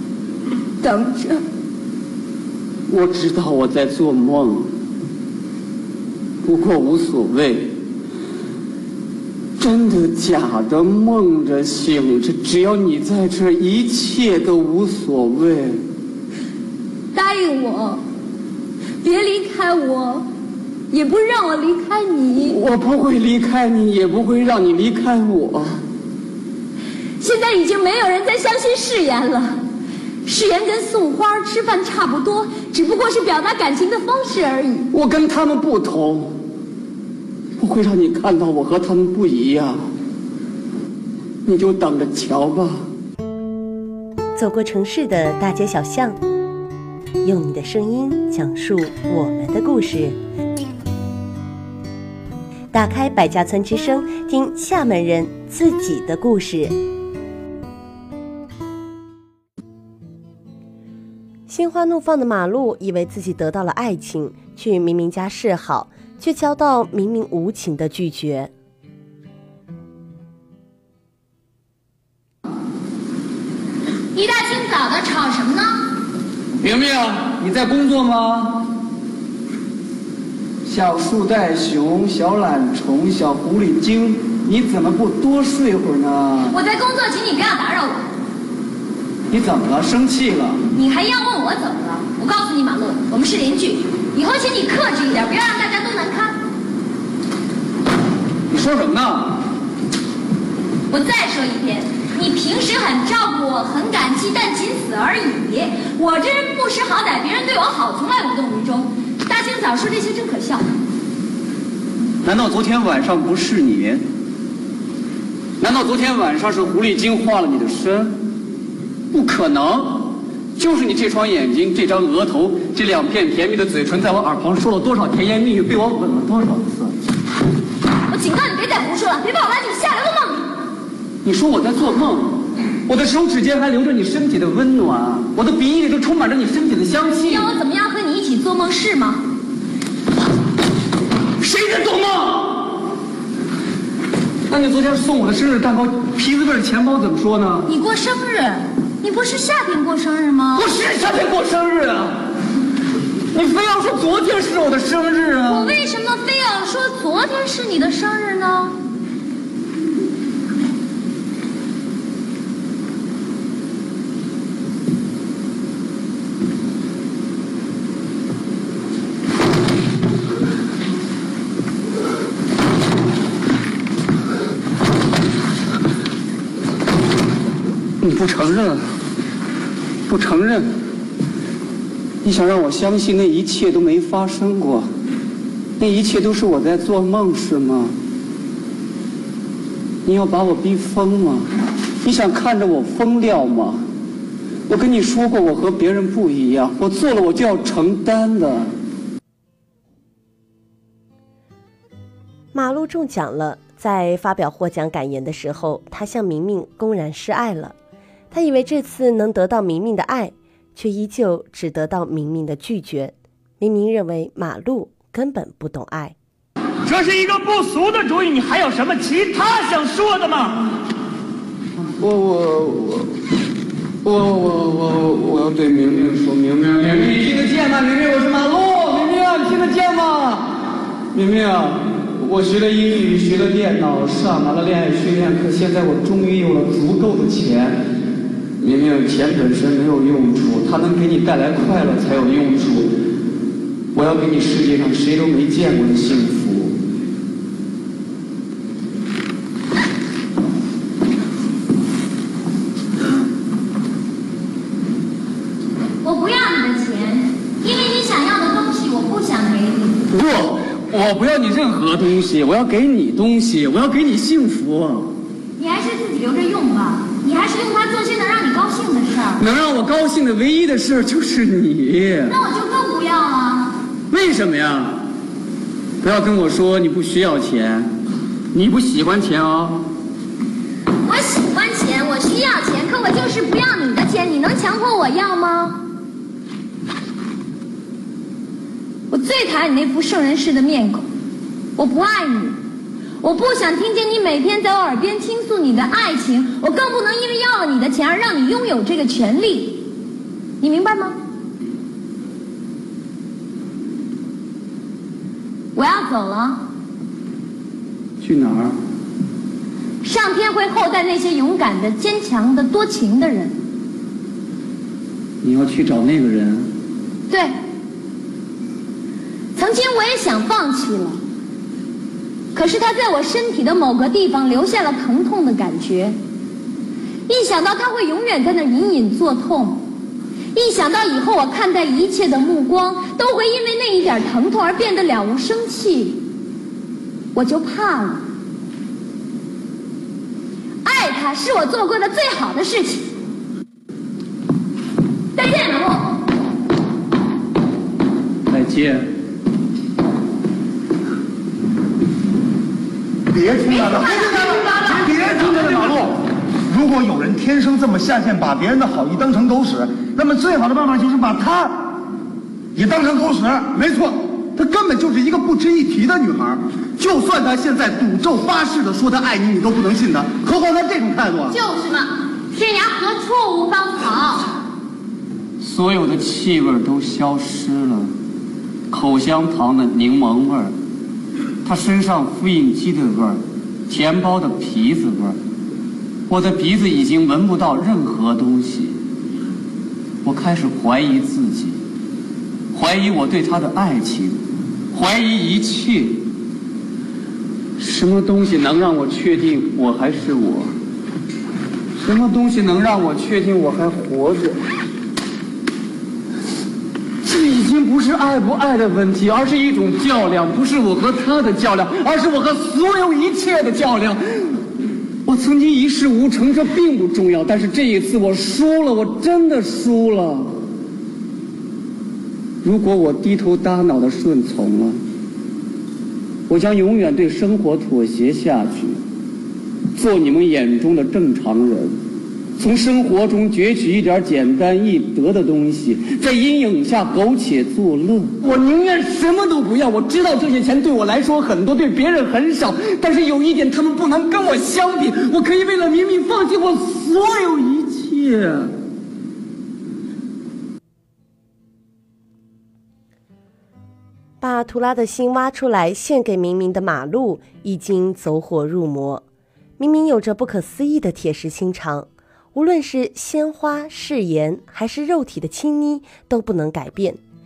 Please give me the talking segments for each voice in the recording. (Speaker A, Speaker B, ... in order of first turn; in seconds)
Speaker A: 0.8-1.4, 17.1-18.0, 19.0-20.3, 20.9-22.6, 27.2-29.6, 30.2-34.9, 74.1-75.8, 86.5-88.0, 90.7-96.4, 100.9-110.7, 128.1-130.5, 137.2-139.2, 147.7-150.7, 155.5-158.8, 256.0-260.1, 265.6-269.4, 272.3-273.8, 281.0-285.8, 289.1-291.0, 291.8-292.6, 293.2-299.8, 300.6-301.2, 305.8-306.6, 310.0-313.6, 319.6-321.2, 322.5-326.2, 327.3-329.8, 330.5-336.2, 337.3-338.2, 340.8-343.1, 345.3-346.2, 353.6-355.9, 371.5-374.5
Speaker B: 2.9-4.7, 6.4-7.8, 9.6-15.8, 22.4-25.8, 34.9-36.4, 37.6-39.9, 41.5-42.9, 76.6-78.7, 80.6-86.5, 89.3-90.6, 98.5-99.4, 112.2-114.0, 115.6-118.2, 119.1-127.0, 131.2-137.5, 141.4-142.8, 144.5-147.7, 150.5-152.3, 153.3-155.7, 178.0-178.9, 180.1-180.7, 182.2-184.9, 185.8-187.9, 190.0-191.5, 192.0-193.8, 194.7-198.7, 222.0-223.1, 224.0-230.6, 231.1-237.8, 238.6-243.0, 243.9-246.8, 260.1-265.1, 269.4-272.3, 274.1-275.0, 276.0-277.9, 278.5-279.9, 308.2-308.8, 315.4-316.7, 348.5-349.1, 375.6-378.1, 378.9-380.7, 381.6-385.4, 386.3-389.0, 390.2-391.8, 392.7-396.3, 397.8-400.7, 402.0-404.6, 407.2-414.6, 415.2-420.6, 422.6-425.0, 426.5-429.0, 429.9-432.0, 432.6-448.7
Speaker C: 44.4-46.2, 47.2-50.2, 52.7-56.8, 61.5-68.5, 202.5-207.8, 208.3-216.2, 454.4-459.2, 459.8-467.2
Speaker D: 216.8-220.7
Speaker E: 353.3-362.0, 362.7-371.6